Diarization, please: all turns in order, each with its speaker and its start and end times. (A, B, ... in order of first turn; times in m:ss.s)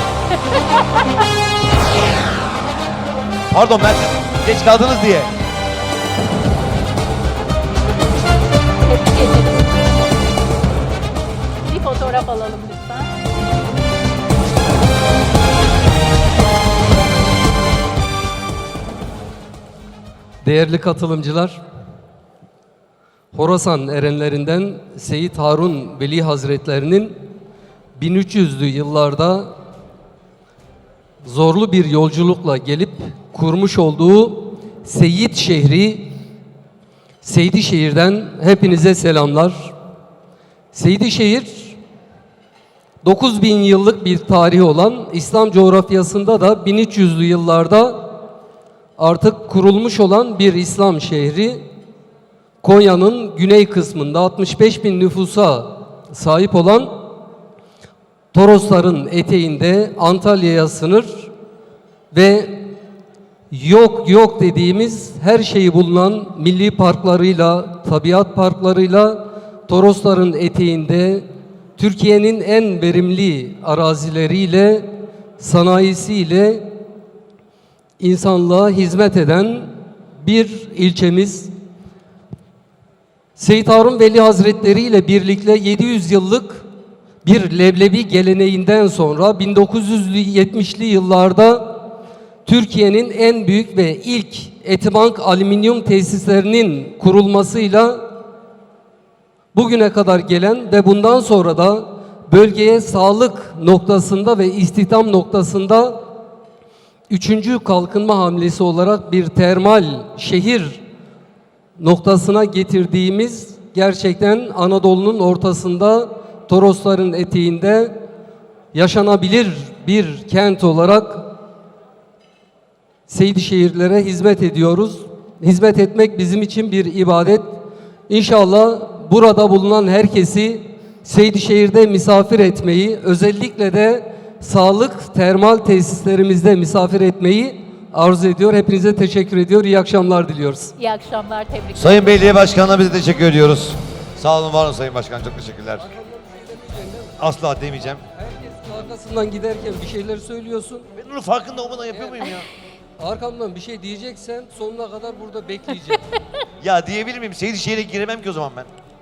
0:00.3-0:00.8 A
0:03.5-0:05.3 B
0:09.0-0:09.6 A
0:11.6-0:13.1 A
0:20.4-0:21.6 C
0:23.3-0:27.2 C
0:28.0-0:29.5 C
0:31.2-0:36.2 C
0:37.2-0:39.7 C
0:40.7-0:41.8 C
0:43.0-0:48.1 C
0:49.0-0:51.6 C
0:52.6-0:57.0 C
0:58.3-1:01.3 C
1:02.1-1:02.7 C
1:03.5-1:11.3 C
1:11.8-1:16.7 C
1:18.0-1:21.5 C
1:23.4-1:26.7 C
1:27.2-1:31.8 C
1:32.4-1:38.1 C
1:39.5-1:46.0 C
1:47.1-1:50.8 C
1:51.8-1:58.0 C
1:58.7-2:01.3 C
2:03.1-2:07.5 C
2:08.1-2:20.7 C
2:20.8-2:22.5 A
2:21.8-2:25.8 B
2:25.8-2:30.9 C
2:27.2-2:28.0 B
2:31.0-2:32.5 B
2:31.9-2:32.3 C
2:33.0-2:36.0 C
2:36.6-2:38.7 B